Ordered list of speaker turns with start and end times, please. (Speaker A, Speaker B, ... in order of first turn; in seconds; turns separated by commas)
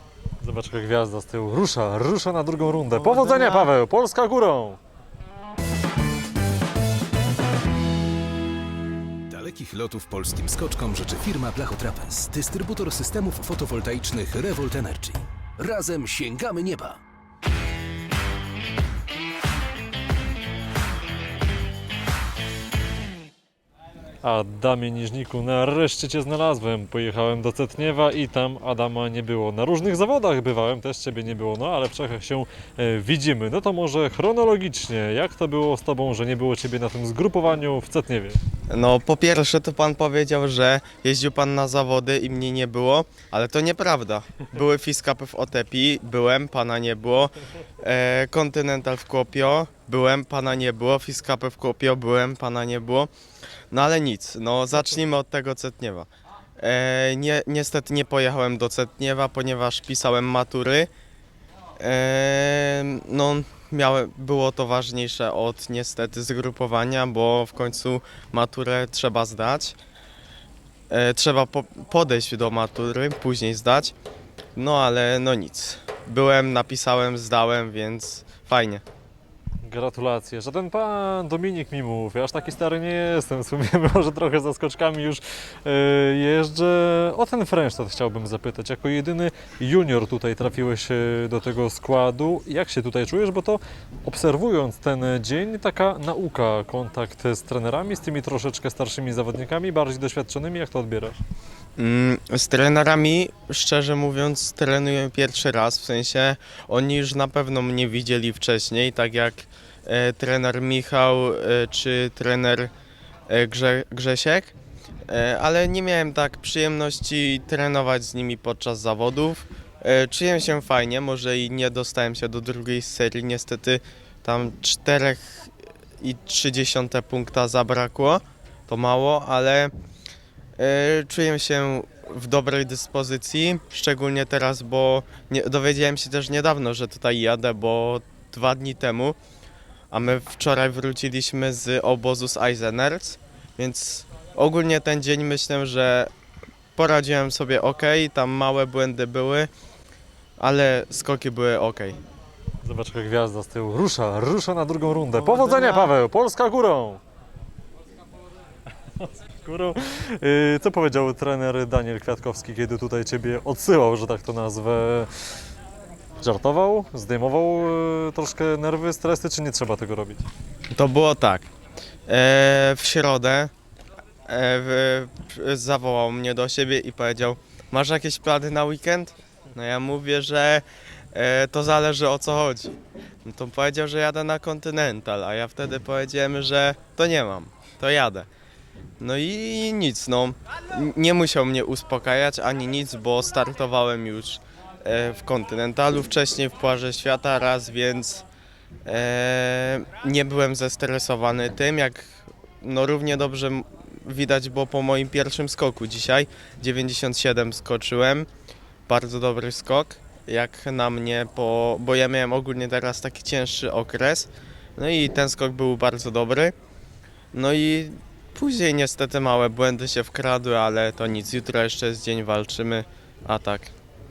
Speaker A: 0.4-4.8, Speaker B: 3.0-3.7, Speaker C: 9.3-17.0, Speaker A: 24.2-38.4, Speaker B: 38.7-53.1, Speaker B: 53.7-56.1, Speaker B: 56.6-60.9, Speaker B: 61.8-69.8, Speaker B: 70.9-74.0, Speaker B: 74.6-78.8, Speaker A: 79.6-101.2, Speaker B: 101.8-112.7, Speaker B: 113.3-114.5, Speaker B: 115.1-129.7, Speaker B: 130.6-139.2, Speaker B: 139.9-146.1, Speaker B: 146.8-149.5, Speaker B: 150.4-152.0, Speaker A: 152.6-157.0, Speaker B: 155.1-155.9, Speaker A: 159.0-165.1, Speaker A: 166.2-170.3, Speaker B: 170.7-171.5, Speaker B: 172.1-173.5, Speaker B: 174.3-182.7, Speaker B: 183.2-188.3, Speaker B: 189.0-198.3, Speaker B: 198.9-208.3, Speaker B: 208.9-216.5, Speaker B: 217.3-223.7